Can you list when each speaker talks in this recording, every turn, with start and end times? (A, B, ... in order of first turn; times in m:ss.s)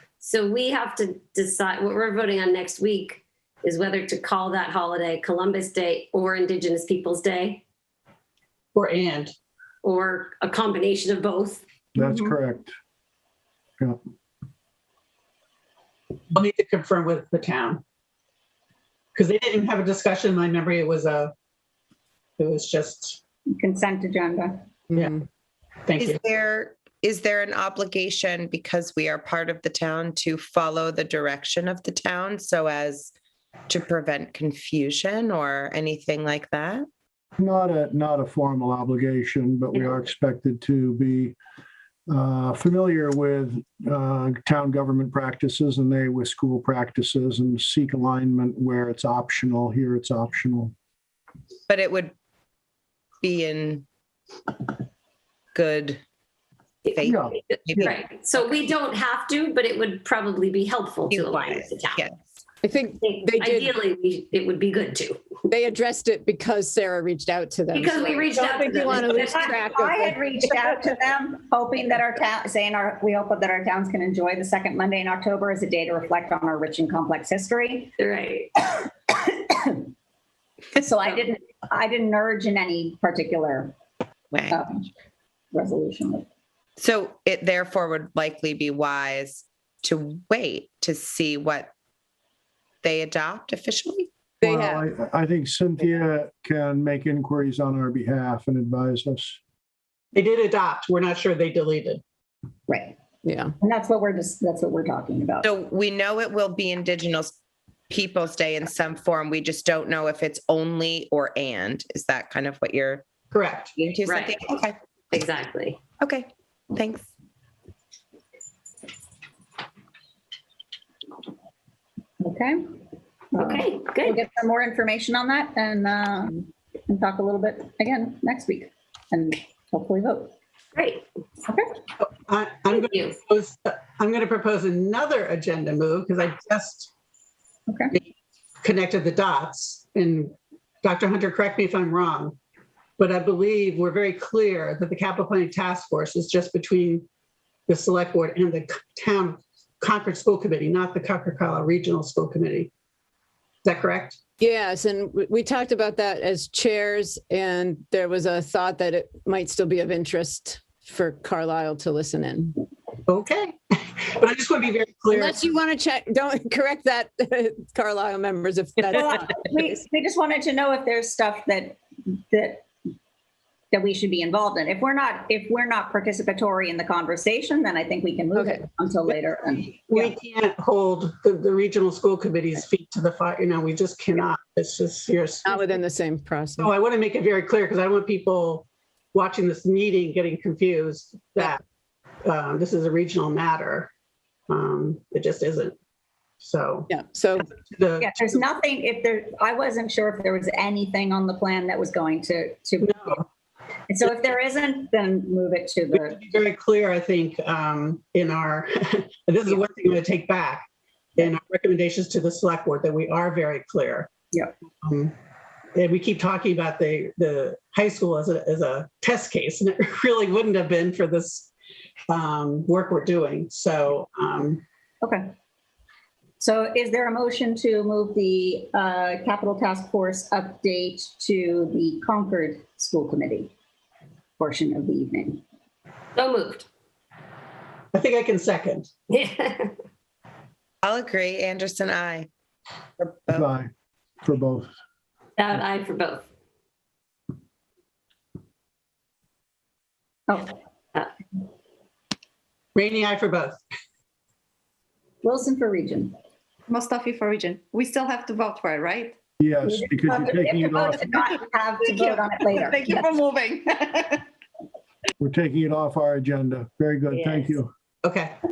0:00.2-0:07.6 A
0:08.7-0:09.3 B
0:09.8-0:11.6 A
0:12.0-0:12.7 C
0:16.3-0:17.8 B
0:19.2-0:21.3 B
0:22.4-0:23.2 B
0:23.5-0:24.6 D
0:24.9-0:25.2 B
0:25.9-0:26.2 B
0:26.0-0:33.1 E
0:33.7-0:36.9 E
0:37.4-0:41.4 C
0:42.1-0:50.7 C
0:51.7-0:52.1 E
0:53.2-0:53.8 E
0:55.5-0:56.0 E
0:56.9-0:58.0 E
0:57.0-0:57.4 C
0:57.5-1:02.0 A
1:01.1-1:02.2 E
1:02.6-1:03.7 F
1:03.0-1:05.3 A
1:05.5-1:10.2 F
1:07.7-1:09.6 A
1:09.3-1:17.9 D
1:18.0-1:18.5 A
1:18.7-1:19.9 D
1:20.8-1:23.8 D
1:24.3-1:24.6 E
1:24.5-1:24.9 D
1:25.5-1:26.2 D
1:26.8-1:31.7 E
1:32.8-1:34.1 E
1:34.4-1:34.8 F
1:34.4-1:39.4 C
1:40.1-1:42.0 B
1:42.7-1:43.0 D
1:43.2-1:43.6 F
1:43.6-1:45.5 D
1:45.4-1:47.3 E
1:47.9-1:53.0 E
1:53.3-1:53.7 B
1:53.8-1:54.8 E
1:54.1-1:54.4 A
1:55.1-1:55.8 A
1:56.0-1:57.1 E
2:02.2-2:02.6 D
2:03.3-2:10.3 D
2:03.4-2:04.2 A
2:10.8-2:11.0 A
2:11.4-2:11.7 D
2:12.0-2:16.9 B
2:12.9-2:13.2 A
2:17.7-2:18.0 D
2:18.6-2:22.4 B
2:23.0-2:27.1 B
2:27.7-2:32.7 B
2:33.6-2:34.2 B
2:34.4-2:42.6 F
2:43.1-2:45.5 B
2:45.1-2:49.2 F
2:48.9-2:52.7 D
2:53.7-3:00.1 D
2:58.3-2:58.7 F
2:59.9-3:05.7 B
3:05.4-3:06.7 F
3:06.6-3:11.6 B
3:12.2-3:13.9 B
3:14.5-3:15.8 B
3:16.4-3:16.9 B
3:16.9-3:17.5 F
3:17.5-3:18.4 B
3:18.0-3:23.2 D
3:22.8-3:23.2 B
3:23.9-3:26.2 D
3:25.9-3:34.1 B
3:34.8-3:35.2 B
3:35.8-3:41.5 B
3:42.1-3:44.6 B
3:46.4-3:53.5 D
3:54.4-3:55.4 D
3:56.2-3:56.7 A
3:57.9-3:58.9 B
3:59.1-3:59.7 A
4:00.8-4:02.3 E
4:03.0-4:03.5 E
4:03.3-4:03.7 C
4:04.2-4:04.7 C
4:05.4-4:06.3 A
4:10.3-4:10.6 D
4:12.8-4:13.6 B
4:15.2-4:16.2 D
4:16.7-4:19.2 G
4:19.4-4:21.0 C
4:19.7-4:23.0 D
4:21.8-4:24.3 G
4:25.2-4:27.7 C
4:28.0-4:28.4 B